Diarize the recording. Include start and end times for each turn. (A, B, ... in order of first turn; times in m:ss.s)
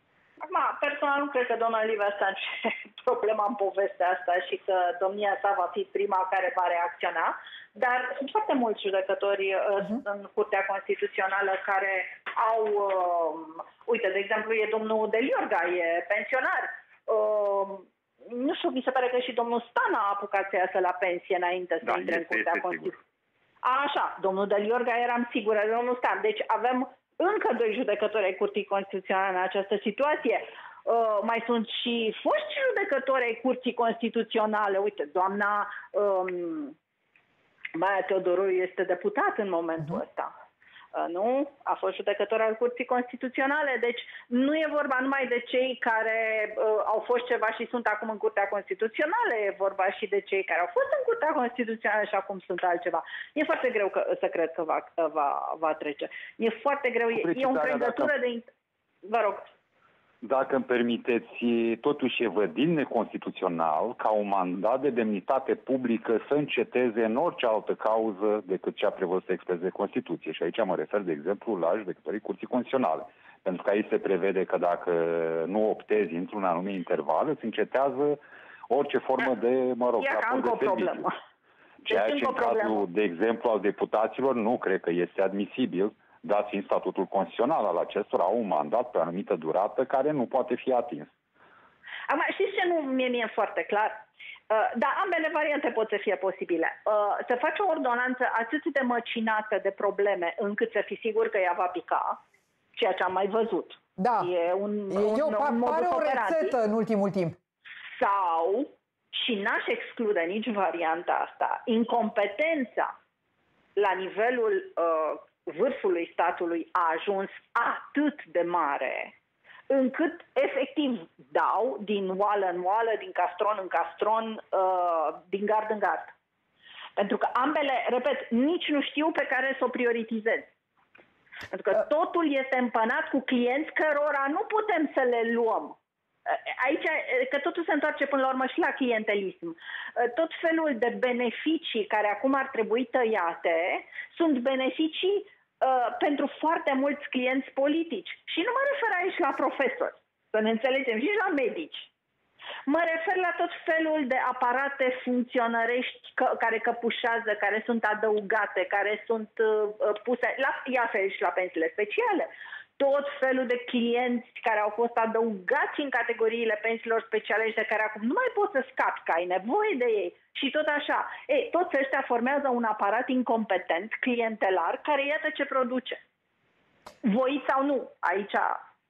0:00.4-0:23.0 A
0:21.8-0:23.0 B
0:23.6-0:36.7 A
0:37.7-0:40.3 A
0:40.9-0:58.5 A
0:57.1-0:58.1 B
0:59.0-0:59.4 A
1:00.2-1:21.0 B
1:20.0-1:21.1 A
1:21.9-1:31.1 B
1:21.9-1:22.8 A
1:32.1-1:42.2 A
1:42.8-1:46.5 A
1:44.0-1:44.3 C
1:44.9-1:47.4 C
1:47.9-1:52.9 A
1:53.8-1:59.1 A
1:59.7-2:06.1 A
2:07.0-2:10.5 A
2:11.5-2:15.8 A
2:16.3-2:31.9 A
2:32.7-2:56.0 A
2:57.0-2:58.6 A